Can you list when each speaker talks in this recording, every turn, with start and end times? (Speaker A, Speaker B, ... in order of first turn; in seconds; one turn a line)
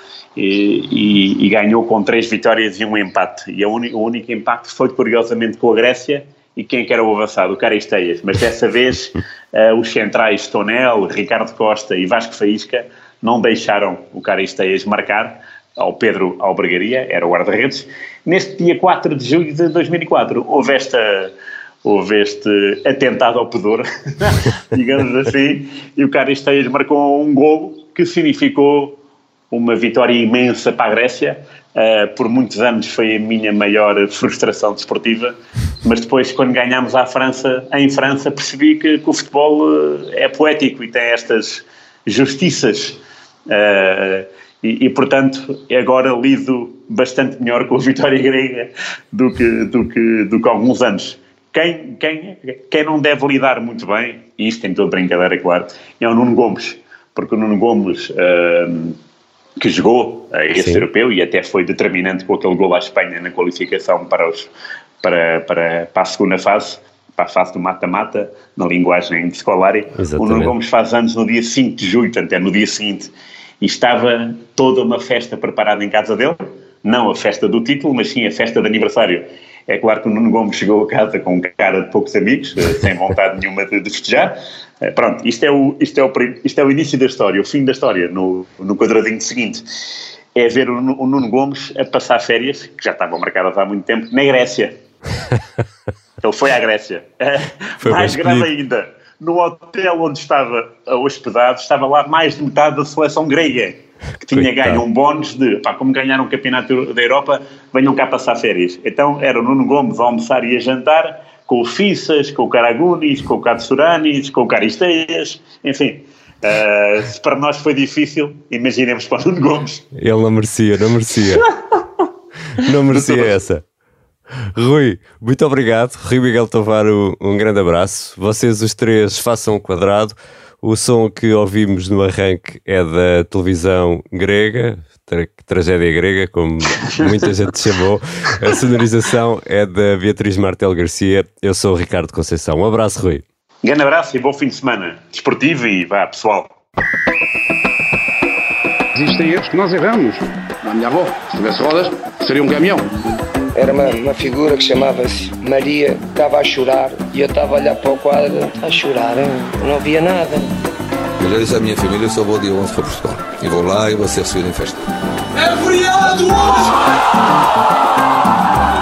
Speaker A: 0.3-29.0
Speaker A: 29.5-59.0
Speaker A: 59.6-64.5
Speaker B: 60.5-60.9
Speaker A: 65.0-89.6
Speaker B: 70.0-70.5
Speaker A: 90.3-94.7
Speaker A: 96.2-119.8
Speaker B: 97.8-98.5
Speaker B: 104.3-104.8
Speaker B: 120.0-121.5
Speaker B: 122.5-123.6
Speaker A: 122.9-123.3
Speaker B: 124.5-143.2
Speaker A: 136.7-137.3
Speaker A: 143.6-146.5
Speaker C: 148.9-150.3
Speaker C: 151.9-152.8
Speaker D: 153.5-160.5
Speaker E: 161.2-164.9
Speaker E: 165.4-166.6